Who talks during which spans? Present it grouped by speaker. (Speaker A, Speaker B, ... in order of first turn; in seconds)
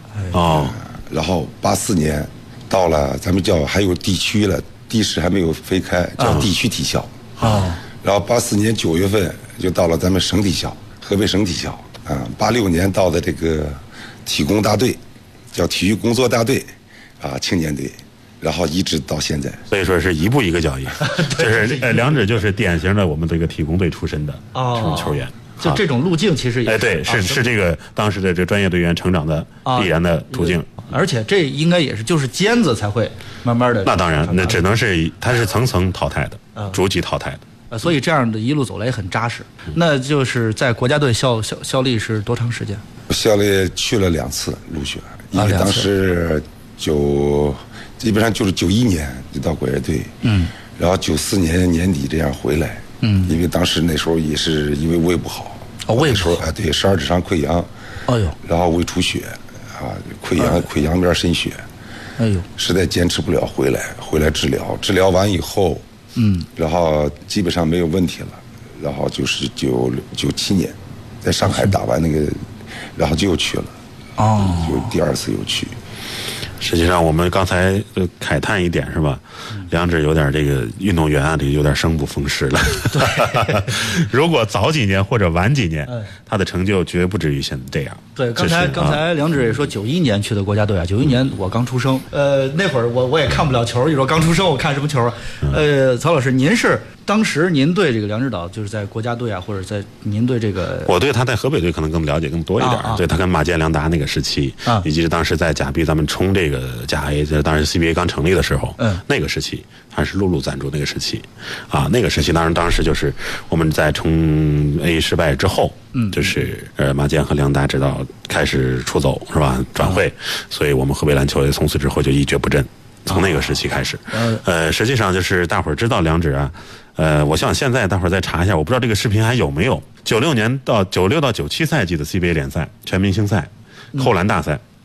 Speaker A: 0.3-0.8, 19.7-25.8, 26.6-30.9, 33.8-37.4, 76.6-89.0, 100.8-134.6
Speaker B: 0.5-7.1, 8.0-15.0, 15.5-19.6, 43.1-50.1, 50.8-57.7, 58.4-61.6, 62.6-65.8, 66.5-72.4, 72.9-73.7, 74.4-75.8
Speaker C: 6.2-6.5, 7.4-7.8, 21.0-22.2, 24.5-27.4, 29.6-34.6, 37.7-42.8, 45.3-45.9, 50.2-50.5, 53.0-53.3, 55.9-56.4, 58.1-58.4, 60.4-60.6, 62.2-62.5, 66.2-66.5, 71.4-71.7, 74.2-74.9, 82.9-83.7, 88.2-100.9, 102.6-103.0, 108.8-109.0, 115.9-116.4, 123.1-124.4